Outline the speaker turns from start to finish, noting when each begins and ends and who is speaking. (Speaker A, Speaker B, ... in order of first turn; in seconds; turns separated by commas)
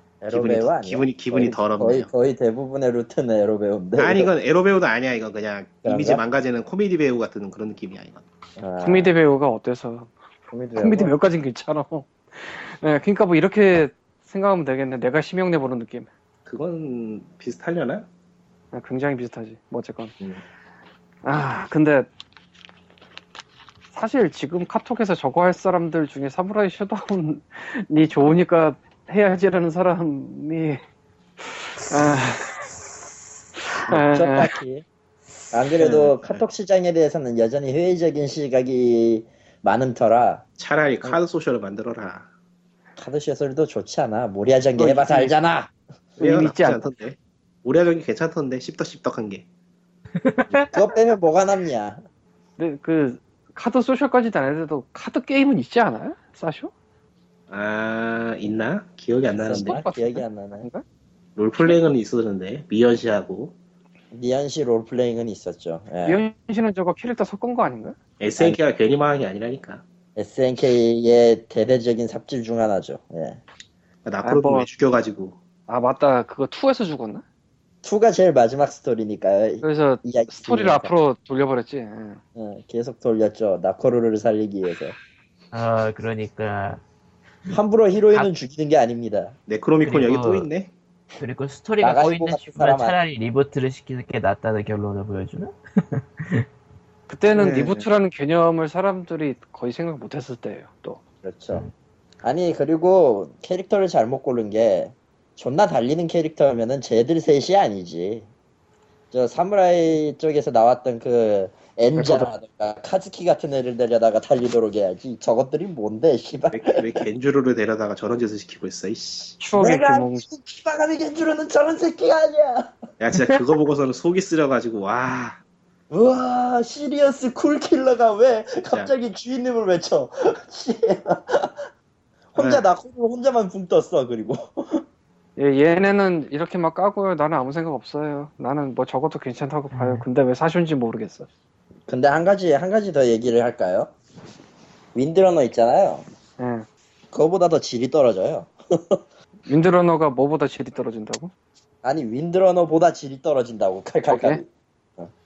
Speaker A: 0.2-4.3, Speaker B: 0.3-2.1, Speaker B: 4.0-8.2, Speaker A: 5.8-6.2, Speaker A: 8.6-9.1, Speaker C: 8.8-10.1, Speaker A: 10.5-11.1, Speaker C: 10.8-16.1, Speaker B: 16.4-18.1, Speaker C: 18.7-20.1, Speaker C: 21.2-22.1, Speaker C: 23.9-30.8, Speaker C: 31.4-32.6, Speaker C: 33.6-34.5, Speaker A: 33.9-34.8, Speaker A: 35.5-40.4, Speaker B: 35.8-36.4, Speaker B: 40.6-42.3, Speaker A: 43.0-45.7, Speaker C: 44.8-45.3, Speaker C: 46.2-46.9, Speaker B: 46.2-49.5, Speaker D: 50.2-50.8, Speaker A: 50.7-52.0, Speaker C: 52.6-56.7, Speaker B: 57.5-59.8, Speaker A: 59.4-60.7, Speaker C: 59.5-60.8, Speaker B: 61.4-63.5, Speaker A: 64.1-66.2, Speaker C: 66.0-68.0, Speaker B: 68.2-69.8, Speaker A: 70.2-73.4, Speaker B: 74.0-75.4, Speaker C: 74.2-74.7, Speaker C: 75.7-77.2, Speaker A: 77.8-80.9, Speaker C: 79.6-82.2, Speaker A: 82.3-85.0, Speaker D: 85.5-86.8, Speaker A: 87.5-89.3, Speaker B: 89.5-90.7, Speaker D: 89.8-90.5, Speaker D: 91.2-96.5, Speaker A: 91.8-93.0, Speaker C: 97.1-101.0, Speaker A: 97.3-97.8, Speaker A: 101.2-101.6, Speaker A: 102.2-108.3, Speaker A: 109.1-117.0, Speaker C: 111.9-112.3, Speaker B: 116.5-119.4, Speaker C: 119.4-120.2, Speaker A: 119.5-122.8, Speaker B: 123.0-125.4, Speaker A: 125.9-131.7, Speaker A: 132.3-134.8, Speaker B: 132.3-132.7, Speaker C: 135.4-141.3, Speaker D: 139.7-140.0, Speaker A: 141.9-143.9, Speaker A: 144.9-146.1, Speaker C: 146.4-146.7, Speaker A: 147.1-149.0, Speaker C: 149.5-151.3, Speaker A: 151.8-154.4, Speaker C: 154.1-154.4